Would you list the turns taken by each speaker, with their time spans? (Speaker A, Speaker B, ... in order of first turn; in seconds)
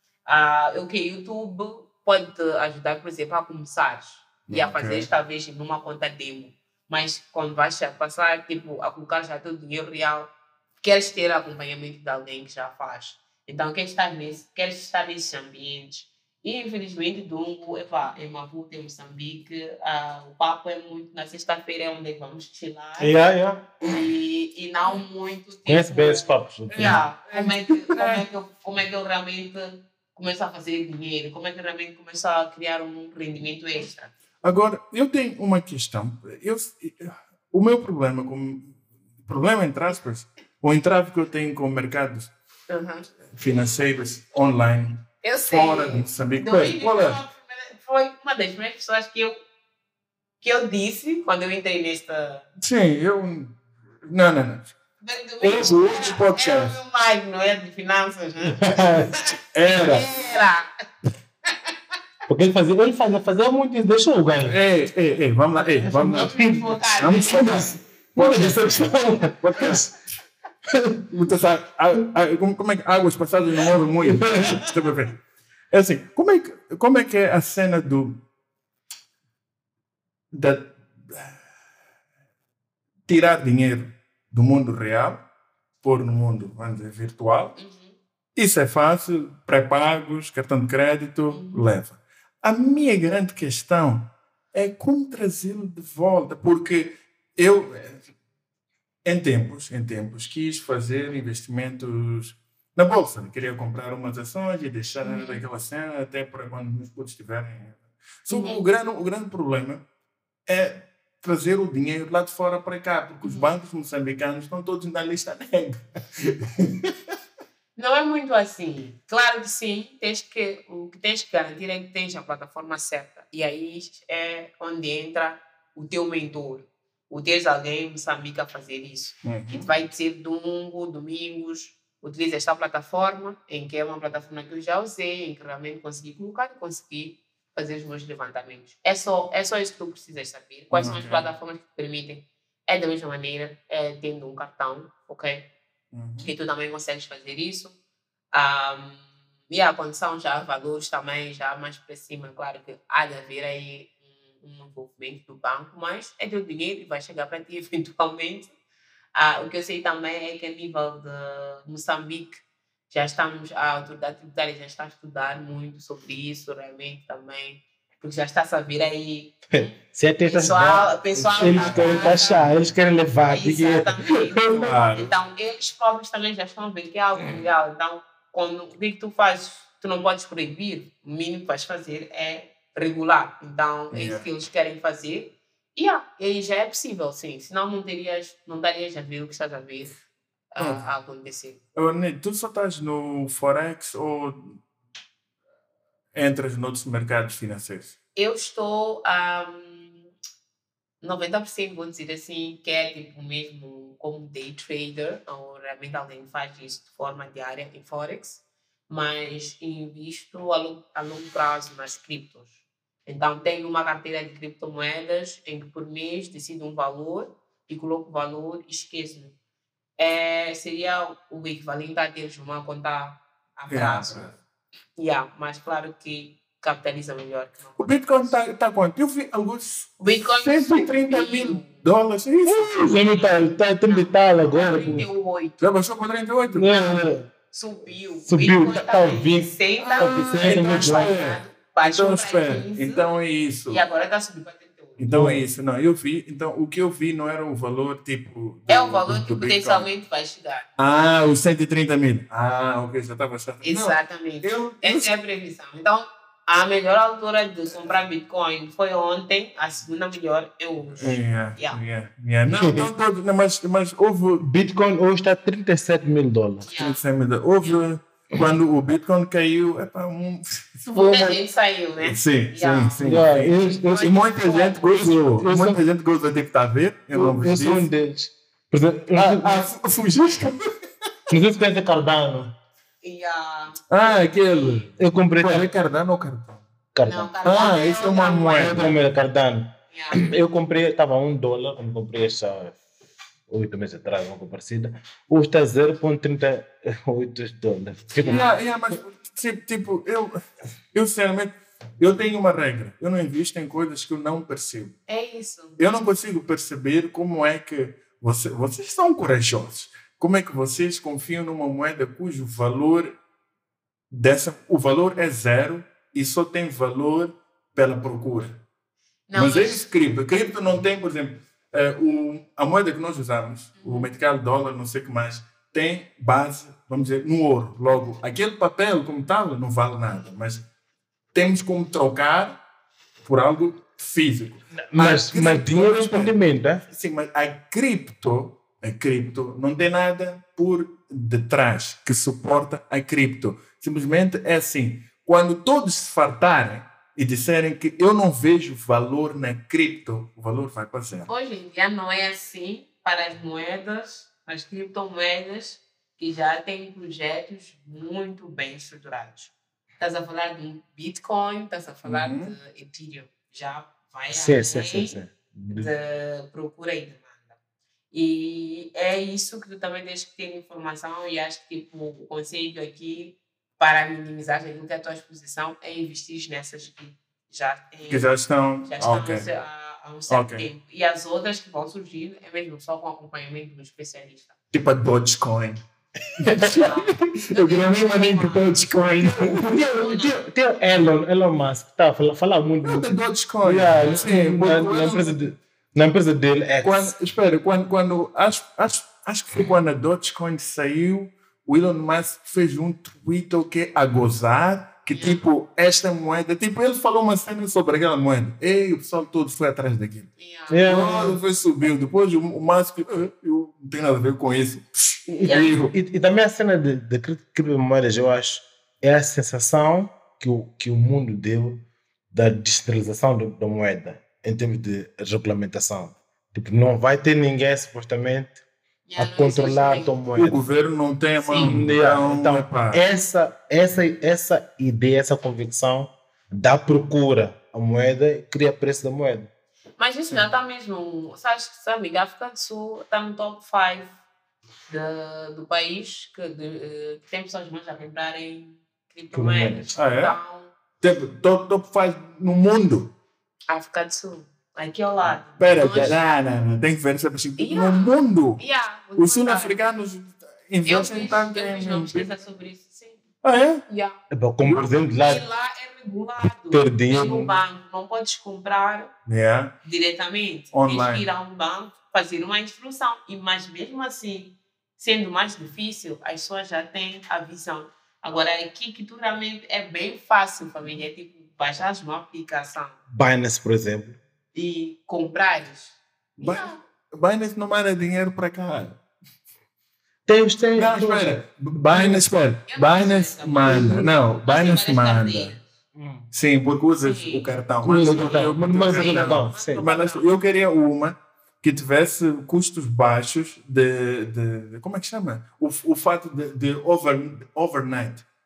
Speaker A: 0.3-23.3, 23.9-34.1, 42.7-43.1, 45.2-49.4, 50.4-52.5, 55.0-60.7, 66.1-67.8, 87.6-88.0, 91.3-91.7, 105.0-105.4, 108.3-108.6, 113.2-113.5, 117.8-145.5, 146.2-147.8, 148.3-158.5, 159.2-172.6, 173.3-190.0, 190.5-191.6, 198.2-200.1, 201.0-212.5, 213.1-219.3, 220.0-224.4, 225.0-228.3, 230.0-231.8, 232.8-235.6, 237.5-243.1, 243.7-245.0, 248.7-250.7, 253.6-261.8, 266.6-267.0, 270.9-275.0, 283.0-284.9, 287.1-288.9, 289.9-290.3, 298.2-298.5, 305.1-305.8, 319.3-319.8, 323.8-324.1, 351.3-367.5, 368.1-378.3, 378.9-384.5, 386.8-388.7, 389.9-390.4, 394.0-394.3, 405.1-405.4, 410.4-411.2, 415.4-415.7, 429.1-430.2, 431.4-431.9, 440.0-444.2, 444.9-450.7, 453.7-456.2, 457.6-459.8, 460.9-463.2, 463.9-464.2, 465.1-469.1, 469.8-483.0, 484.5-486.8, 492.7-495.6, 497.0-497.5, 498.2-500.3
Speaker B: 4.5-5.1, 26.7-28.2, 34.4-42.3, 43.3-47.2, 52.6-54.7, 55.4-56.8, 59.5-60.1, 64.4-66.4, 67.0-70.0, 71.1-75.2, 75.7-78.2, 80.3-81.4, 83.1-85.2, 85.8-87.6, 88.4-98.1, 99.0-109.8, 110.5-116.9, 129.2-129.7, 140.7-141.3, 145.9-146.3, 171.1-172.3, 174.0-175.1, 183.9-184.2, 190.6-190.8, 191.8-194.6, 196.1-197.9, 223.7-224.3, 227.8-233.0, 235.6-236.7, 239.9-243.8, 245.0-249.9, 250.8-255.1, 261.0-264.5, 266.8-271.4, 272.0-277.9, 279.1-280.6, 283.9-286.6, 287.4-288.9, 298.1-305.0, 305.8-313.2, 314.1-318.6, 319.4-330.6, 331.3-332.6, 333.2-351.3, 362.1-362.6, 378.1-379.5, 380.3-380.7, 384.7-385.8, 386.4-390.1, 392.8-395.4, 396.8-410.3, 410.9-415.9, 430.3-433.0, 449.9-450.4, 451.0-453.1, 455.6-458.6, 459.2-462.4, 463.4-463.8, 464.6-464.9, 469.3-469.7, 470.7-471.2, 486.4-489.0, 490.8-495.6, 496.3-508.2
Speaker C: 23.0-23.7, 25.7-27.0, 58.6-59.1, 62.3-64.6, 65.8-66.7, 68.1-69.9, 74.1-74.5, 169.5-173.9, 232.4-235.1, 236.5-237.3, 238.3-241.1, 245.1-245.4, 262.5-262.9, 264.4-266.7, 273.0-273.9, 275.1-275.8, 277.1-279.7, 281.3-282.5, 285.0-285.7, 286.9-287.3, 288.5-292.8, 293.5-298.5, 334.8-336.8, 364.3-365.9, 389.2-397.1, 410.7-411.4, 415.4-428.6, 429.2-430.6, 431.6-439.5, 449.3-449.9, 464.3-465.4, 466.7-467.5, 483.1-484.2, 490.3-491.4, 491.9-492.2, 493.7-494.1, 495.9-496.3, 497.8-499.9